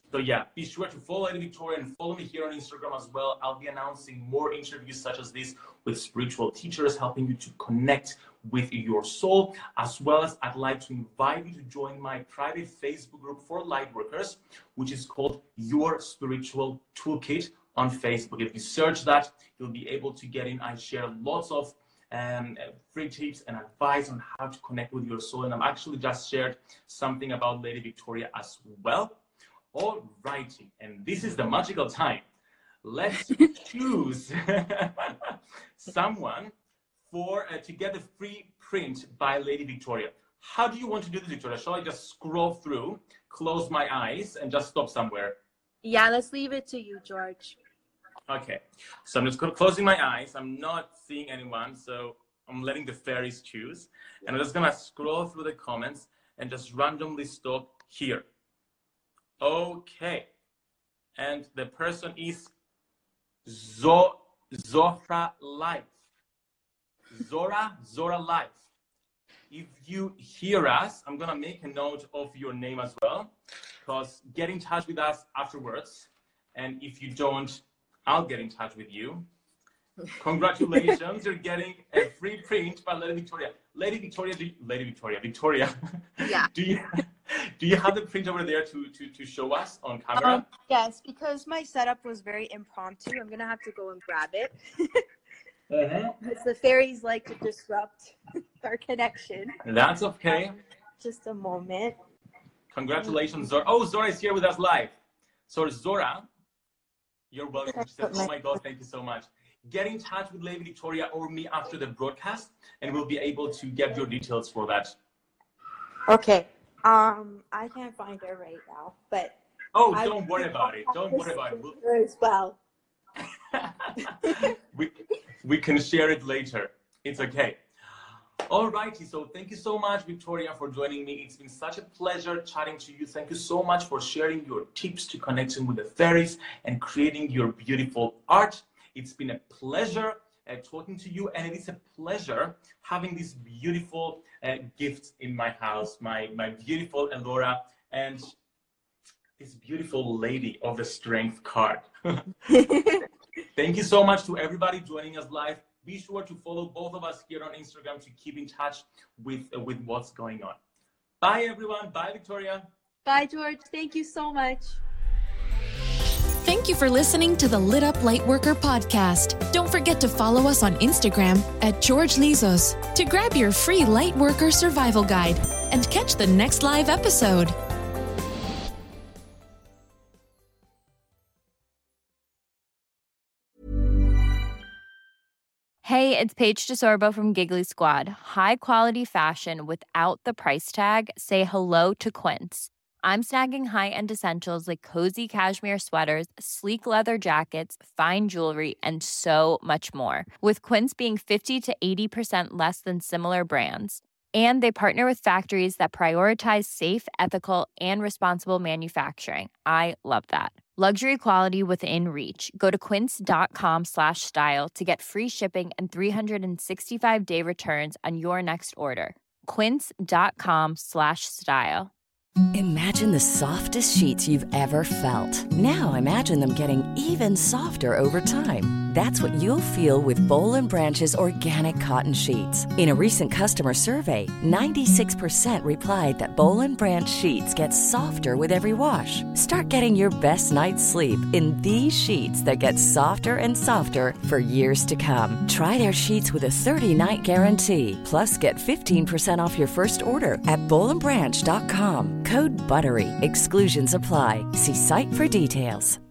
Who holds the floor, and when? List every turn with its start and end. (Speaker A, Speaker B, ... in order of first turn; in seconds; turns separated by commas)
Speaker A: 0.1-29.2, Speaker A: 29.7-32.2, Speaker A: 32.8-36.5, Speaker A: 37.1-45.4, Speaker B: 45.8-47.6, Speaker A: 48.3-58.2, Speaker A: 59.4-60.3, Speaker A: 61.2-62.5, Speaker A: 63.5-65.9, Speaker A: 67.1-68.7, Speaker A: 69.5-79.3, Speaker A: 80.2-90.5, Speaker B: 86.2-86.5, Speaker B: 90.2-95.0, Speaker A: 95.7-96.2, Speaker B: 96.2-99.6, Speaker A: 99.6-100.6, Speaker B: 101.0-102.0, Speaker A: 102.7-105.0, Speaker A: 105.5-106.3, Speaker A: 107.3-115.0, Speaker B: 107.7-108.6, Speaker B: 116.1-119.4, Speaker A: 119.7-121.8, Speaker B: 119.9-122.6, Speaker A: 123.5-127.6, Speaker B: 124.0-124.5, Speaker A: 128.5-148.3, Speaker A: 149.4-152.3, Speaker B: 152.5-153.1, Speaker A: 153.6-160.6, Speaker A: 161.2-162.7, Speaker B: 163.1-164.8, Speaker C: 166.4-177.6, Speaker D: 185.8-221.9, Speaker E: 222.5-256.0